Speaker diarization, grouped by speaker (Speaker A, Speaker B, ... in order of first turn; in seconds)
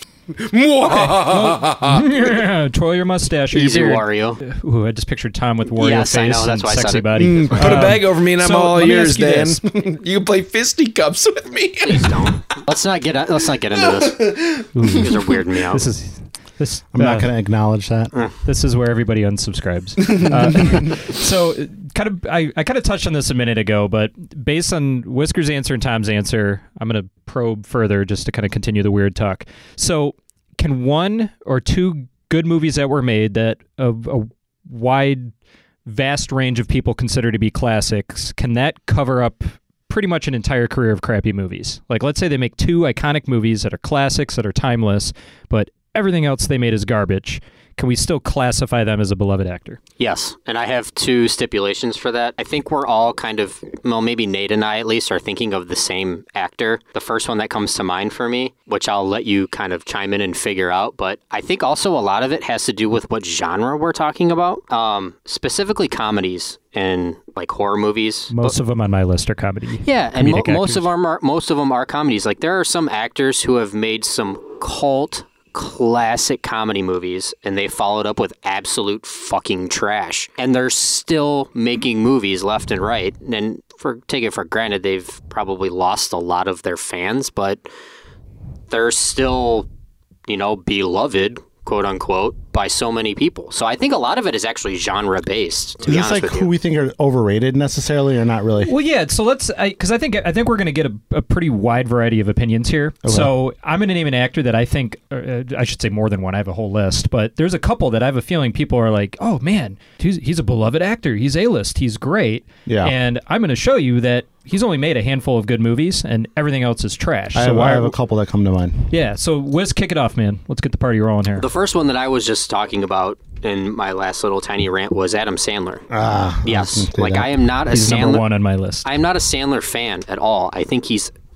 Speaker A: 0.3-2.1, 7.2-12.4, 13.9-14.6
Speaker B: 0.9-9.6, 14.7-15.1, 15.7-17.3, 18.4-35.3, 35.9-49.8, 68.3-70.9, 98.7-118.0, 118.9-121.5, 127.7-128.9
Speaker C: 3.5-4.4, 5.8-7.9, 11.8-15.8, 50.0-68.5, 69.8-87.6, 88.7-89.7, 90.3-96.5, 121.4-125.8, 126.4-128.3, 128.8-131.1
Speaker D: 16.9-18.1, 95.8-98.7, 103.0-103.3, 112.7-112.9, 117.3-118.9, 125.9-127.4